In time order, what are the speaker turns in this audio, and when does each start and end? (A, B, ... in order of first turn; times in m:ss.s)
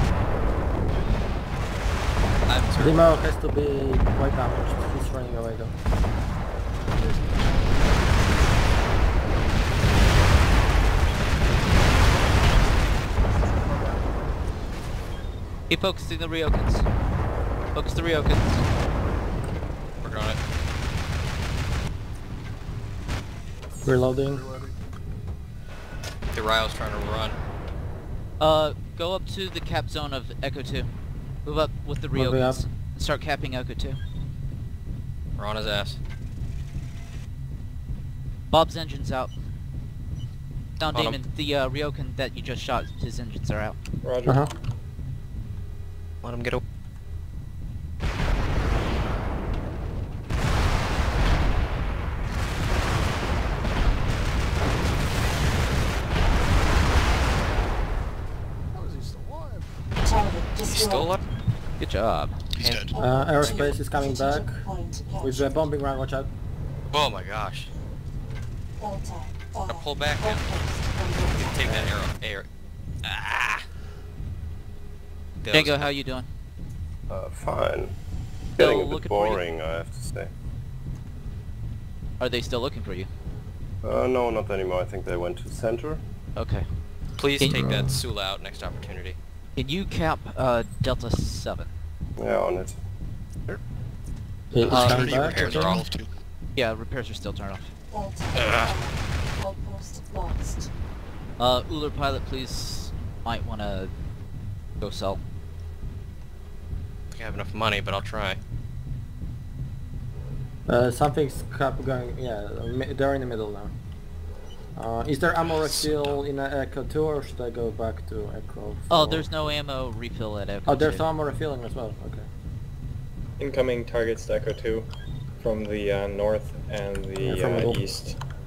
0:02.4-0:03.1 A
0:02.8-0:05.8 B
0:06.9-0:08.4 C
0:13.3-0:14.4 C
0:15.7-0:16.9 D
0:17.7-0:18.6 D
0:20.0-0:20.4 A
0:23.8-0:24.5 B
0:24.2-0:24.7 C
0:26.3-0:27.4 A
0:28.4-0:30.9 D
0:31.4-0:34.0 D
0:32.1-0:32.6 B
0:35.4-0:36.0 A
0:38.5-0:39.3 D
0:40.8-0:43.8 D
0:40.9-0:41.2 A
0:44.0-0:44.4 E
0:44.2-0:44.5 B
0:46.2-0:46.6 A
0:58.7-0:59.7 C
1:00.7-1:01.2 A
1:01.8-1:02.4 D
1:02.5-1:03.0 F
1:02.6-1:02.8 A
1:02.9-1:03.9 G
1:03.0-1:04.7 B
1:04.8-1:05.2 G
1:05.2-1:06.3 B
1:06.9-1:07.7 A
1:09.7-1:10.6 A
1:10.6-1:11.3 G
1:11.3-1:12.5 A
1:13.0-1:13.6 A
1:15.4-1:15.9 A
1:15.5-1:16.3 D
1:17.1-1:17.9 H
1:18.6-1:20.3 H
1:18.6-1:19.4 D
1:22.2-1:23.1 D
1:23.8-1:26.0 H
1:26.4-1:26.7 D
1:27.2-1:29.2 A
1:27.4-1:27.7 D
1:27.5-1:28.0 B
1:29.6-1:31.7 D
1:32.2-1:32.8 H
1:34.5-1:35.8 B
1:34.6-1:36.1 F
1:34.7-1:35.8 A
1:34.7-1:35.0 D
1:36.5-1:37.7 D
1:37.9-1:40.7 G
1:38.3-1:38.7 A
1:41.4-1:43.9 D
1:44.8-1:45.2 D
1:47.1-1:48.4 A
1:50.7-1:53.7 B
1:54.8-1:59.3 B
1:55.6-1:56.0 A
1:58.9-2:01.0 D
2:00.6-2:02.3 B
2:03.4-2:04.9 E
2:05.4-2:08.2 E
2:07.2-2:07.8 B